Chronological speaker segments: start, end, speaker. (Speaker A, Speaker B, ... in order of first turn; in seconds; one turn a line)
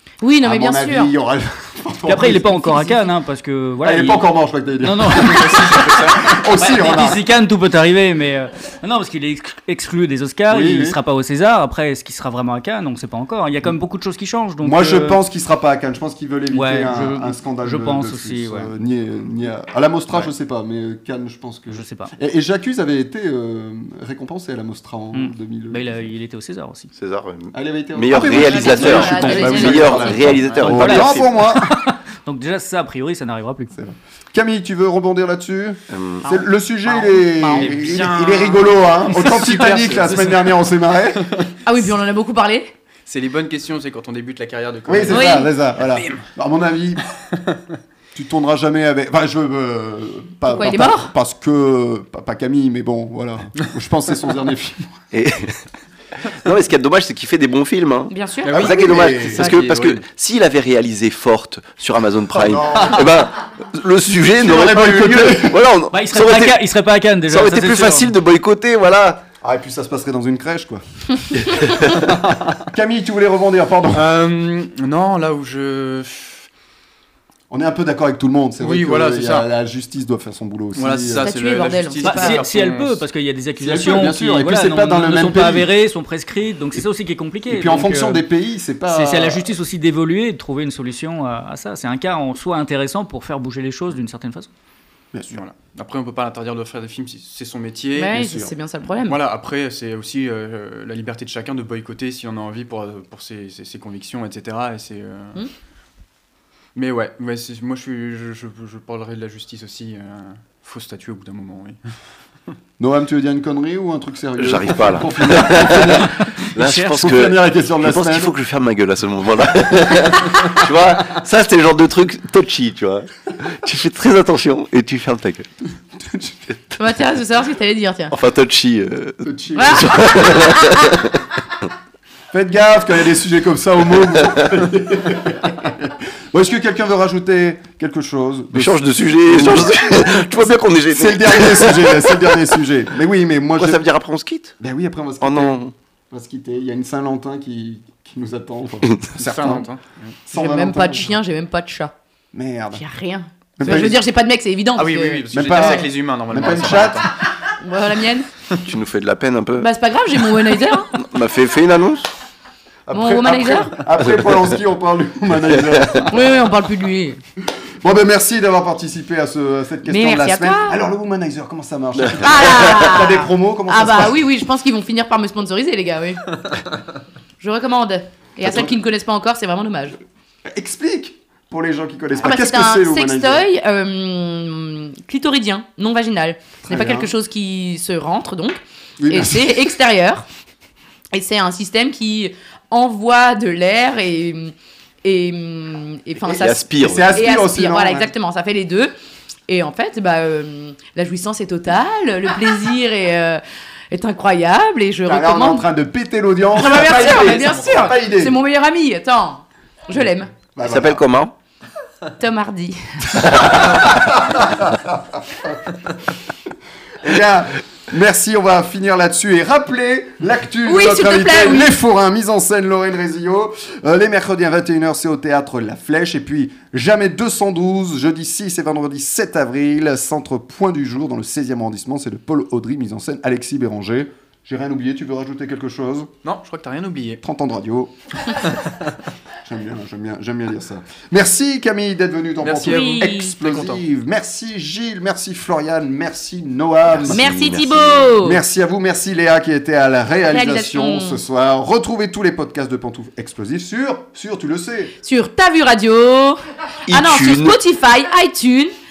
Speaker A: 0.2-1.1
Speaker B: 0.4-3.1
Speaker C: 2.1-15.2
Speaker B: 3.8-7.2
Speaker D: 5.2-6.3
Speaker B: 10.5-11.0
Speaker B: 14.6-25.9
Speaker C: 16.5-18.7
Speaker C: 21.7-22.1
Speaker C: 25.1-26.9
Speaker E: 26.9-31.3
Speaker B: 27.5-31.8
Speaker A: 28.1-30.3
Speaker C: 28.6-33.7
Speaker B: 33.7-41.3
Speaker E: 35.9-36.2
Speaker A: 36.3-37.6
Speaker C: 37.5-38.4
Speaker D: 37.6-38.6
Speaker C: 39.1-40.4
Speaker A: 41.6-42.7
Speaker D: 43.1-46.2
Speaker B: 44.9-47.0
Speaker A: 45.1-45.5
Speaker B: 48.1-55.0
Speaker A: 50.5-51.1
Speaker E: 55.1-55.6
Speaker E: 56.2-66.7
Speaker A: 58.1-58.6
Speaker D: 58.4-60.0
Speaker B: 58.5-59.5
Speaker B: 62.3-63.3
Speaker B: 64.3-65.7
Speaker C: 65.9-68.2
Speaker E: 67.2-69.2
Speaker B: 69.4-74.2
Speaker D: 73.9-76.5
Speaker B: 77.5-81.3
Speaker D: 78.6-79.5
Speaker D: 80.8-83.0
Speaker A: 81.2-82.4
Speaker C: 82.0-88.2
Speaker B: 83.6-85.7
Speaker B: 87.5-89.5
Speaker C: 88.9-94.5
Speaker B: 95.1-95.4
Speaker D: 95.3-98.5
Speaker A: 98.0-99.2
Speaker D: 99.0-105.4
Speaker D: 106.8-111.8
Speaker B: 112.8-118.3
Speaker E: 114.4-125.5
Speaker C: 116.2-116.9
Speaker B: 126.0-126.4
Speaker A: 126.8-128.1
Speaker E: 128.1-131.3
Speaker B: 129.2-130.3
Speaker A: 129.5-130.8
Speaker B: 132.3-143.8
Speaker E: 138.5-142.4
Speaker E: 143.6-144.6
Speaker B: 144.6-149.7
Speaker E: 145.2-145.7
Speaker D: 149.2-150.2
Speaker B: 150.3-151.2
Speaker A: 150.3-151.9
Speaker B: 152.3-152.8
Speaker A: 152.7-155.9
Speaker B: 153.6-154.0
Speaker D: 154.8-157.2
Speaker B: 155.3-157.1
Speaker A: 157.6-158.3
Speaker E: 158.6-159.7
Speaker A: 159.6-160.9
Speaker E: 160.9-162.1
Speaker B: 162.9-166.2
Speaker A: 162.9-163.8
Speaker E: 164.0-164.6
Speaker E: 165.4-166.1
Speaker A: 166.1-167.2
Speaker B: 167.8-174.3
Speaker A: 169.8-170.8
Speaker E: 172.0-172.4
Speaker A: 172.2-176.2
Speaker A: 177.4-180.0
Speaker B: 180.5-183.5
Speaker A: 182.2-190.2
Speaker B: 186.6-187.1
Speaker B: 189.0-189.8
Speaker A: 191.1-194.5
Speaker A: 195.0-198.9
Speaker B: 196.2-198.1
Speaker E: 196.3-197.2
Speaker A: 199.5-205.7
Speaker B: 205.1-208.4
Speaker A: 206.5-210.3
Speaker D: 206.8-207.9
Speaker B: 210.5-211.0
Speaker E: 210.6-211.3
Speaker A: 212.2-213.3
Speaker B: 213.7-215.6
Speaker B: 217.0-236.1
Speaker A: 220.7-221.7
Speaker D: 236.2-237.2
Speaker B: 237.2-237.9
Speaker B: 239.4-255.0
Speaker D: 242.4-243.8
Speaker A: 242.6-243.3
Speaker E: 246.9-248.1
Speaker A: 247.1-248.4
Speaker A: 250.3-251.2
Speaker A: 255.0-258.7
Speaker E: 256.9-257.6